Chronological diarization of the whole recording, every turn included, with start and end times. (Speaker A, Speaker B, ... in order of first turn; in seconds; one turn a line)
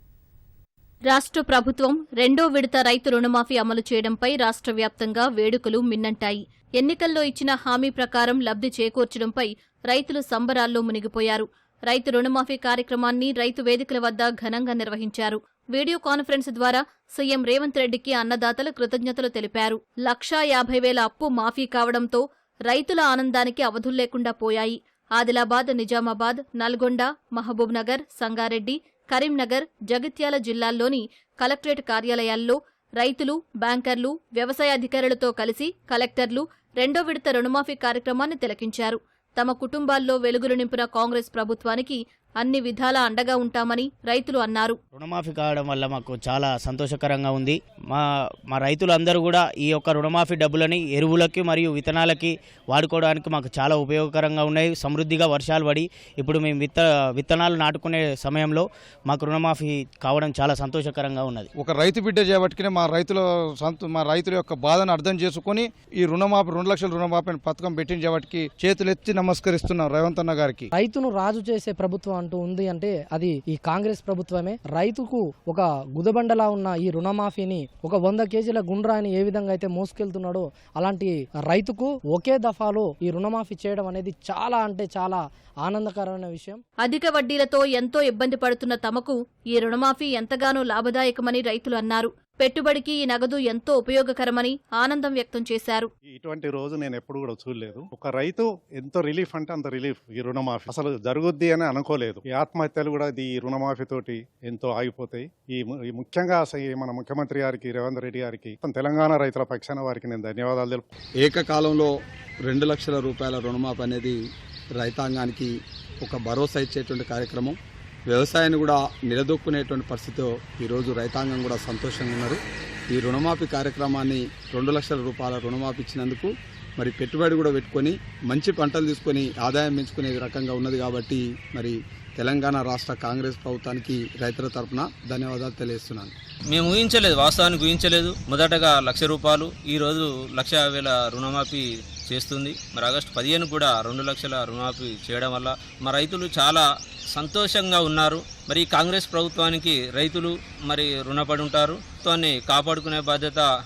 Speaker A: 1.1-44.8
Speaker B: 45.0-61.5
Speaker C: 61.5-70.7
Speaker D: 70.7-86.6
Speaker A: 86.8-95.9
Speaker E: 96.1-110.9
Speaker F: 111.2-111.9
Speaker F: 112.5-114.2
Speaker F: 114.8-115.5
Speaker F: 116.0-117.6
Speaker F: 118.1-122.4
Speaker F: 122.9-136.1
Speaker G: 136.5-146.6
Speaker G: 147.2-153.4